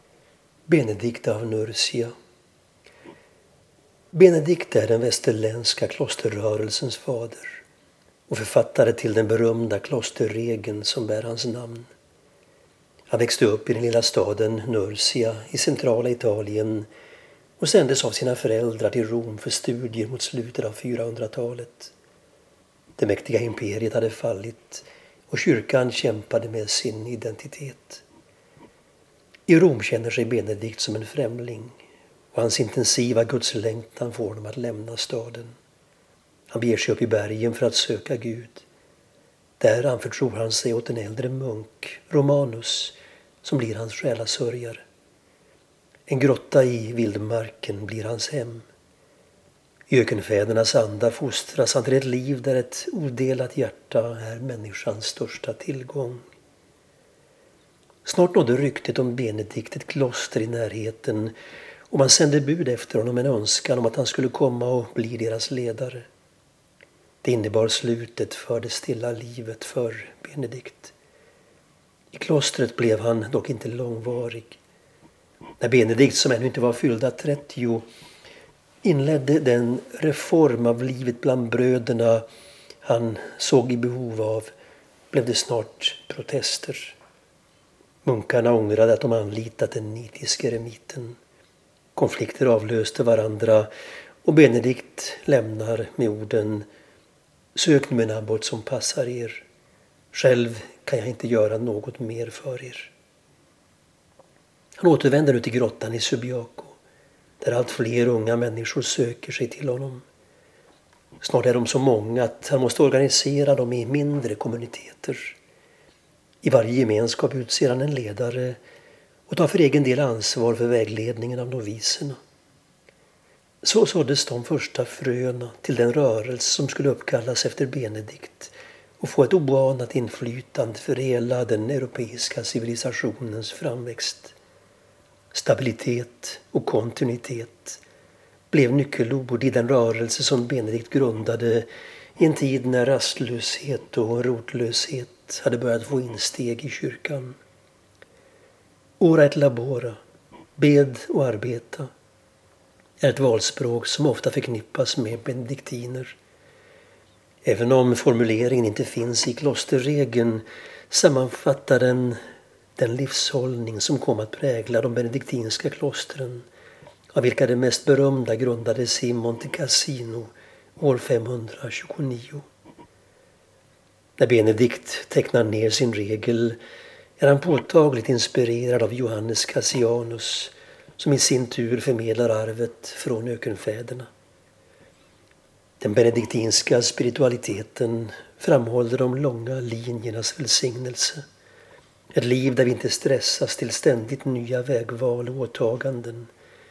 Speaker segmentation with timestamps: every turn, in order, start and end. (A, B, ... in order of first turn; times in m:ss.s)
0:00.7-0:02.1 A
0:04.1-0:07.6 A
0:08.3-0:11.9 A
0:13.1-0:16.9 A
0:17.6-0:21.9 A
0:23.0-0:28.0 A
0:29.5-0:31.8 A
0:32.3-0:35.6 A
0:36.5-0:38.6 A
0:39.6-0:44.8 A
0:46.1-0:48.7 A
0:49.9-0:56.3 A
0:58.0-1:01.3 A
1:01.9-1:06.1 A
1:07.2-1:10.9 A
1:12.1-1:14.6 A
1:15.6-1:17.8 A
1:18.8-1:22.2 A
1:22.8-1:24.5 A
1:25.1-1:27.0 A
1:28.0-1:31.2 A
1:32.0-1:33.7 A
1:34.2-1:36.7 A
1:37.6-1:39.4 A
1:40.1-1:42.9 A
1:44.8-1:46.8 A
1:47.4-1:50.0 A
1:51.2-1:55.4 A
1:56.4-1:58.6 A
1:59.3-2:02.2 A
2:03.6-2:14.3 A
2:15.3-2:17.8 A
2:18.5-2:27.4 A
2:29.0-2:30.0 A
2:30.6-2:31.9 A
2:33.0-2:36.2 A
2:37.4-2:42.2 A
2:42.8-2:46.5 A
2:47.1-2:52.4 A
2:54.2-2:56.6 A
2:57.2-3:04.1 A
3:05.8-3:11.2 A
3:12.1-3:16.3 A